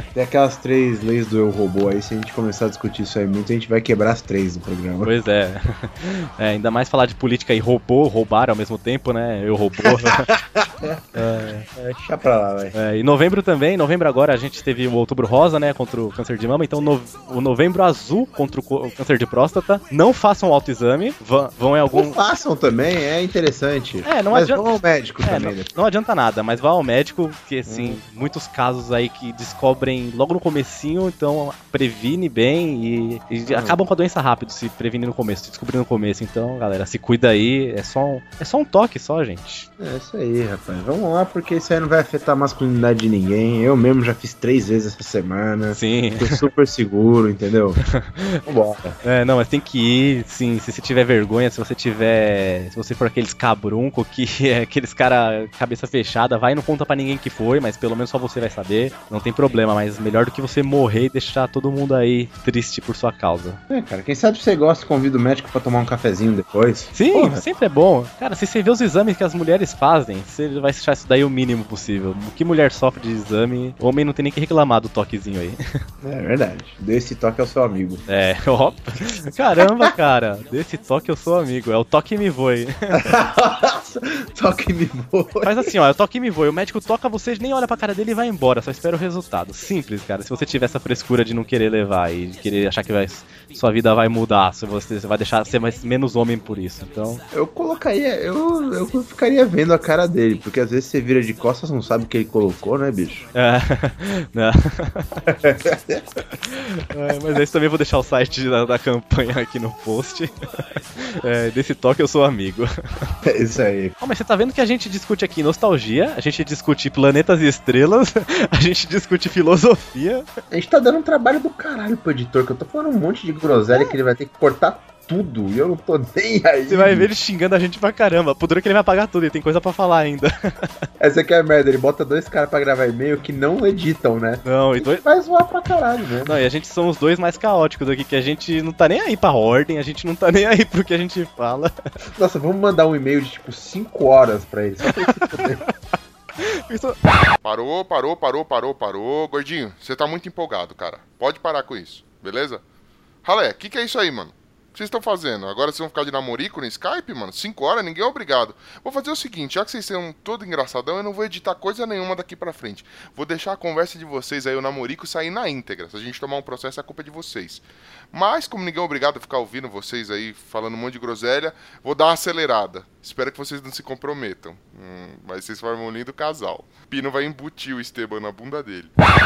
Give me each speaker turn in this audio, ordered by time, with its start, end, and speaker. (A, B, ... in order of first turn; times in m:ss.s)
0:00.2-0:05.2 A
0:05.0-0:10.3 B
0:09.8-0:11.3 A
0:11.2-0:11.7 B
0:11.8-0:12.7 A
0:12.7-0:22.2 B
0:21.9-0:25.7 A
0:24.0-0:24.6 B
0:25.2-0:39.7 B
0:27.7-0:28.0 A
0:33.5-0:33.8 A
0:39.8-0:47.8 A
0:45.7-0:46.4 B
0:47.8-0:48.4 B
0:48.5-0:49.0 A
0:49.0-1:03.6 B
1:03.7-1:07.4 A
1:06.9-1:15.6 B
1:16.0-1:18.0 A
1:18.1-1:23.1 B
1:19.6-1:19.9 A
1:23.0-1:25.7 A
1:25.4-1:37.2 B
1:37.3-1:43.3 A
1:43.4-1:45.1 B
1:45.3-1:46.0 A
1:46.4-1:50.4 B
1:51.0-1:53.1 B
1:53.2-1:54.0 A
1:54.0-2:00.3 B
2:00.5-2:07.1 A
2:06.7-2:10.3 B
2:11.0-2:16.4 A
2:14.4-2:15.0 B
2:16.2-2:21.7 B
2:22.2-2:25.6 A
2:24.8-2:25.7 B
2:26.7-2:27.0 B
2:27.4-2:32.6 C
2:33.2-2:58.9 C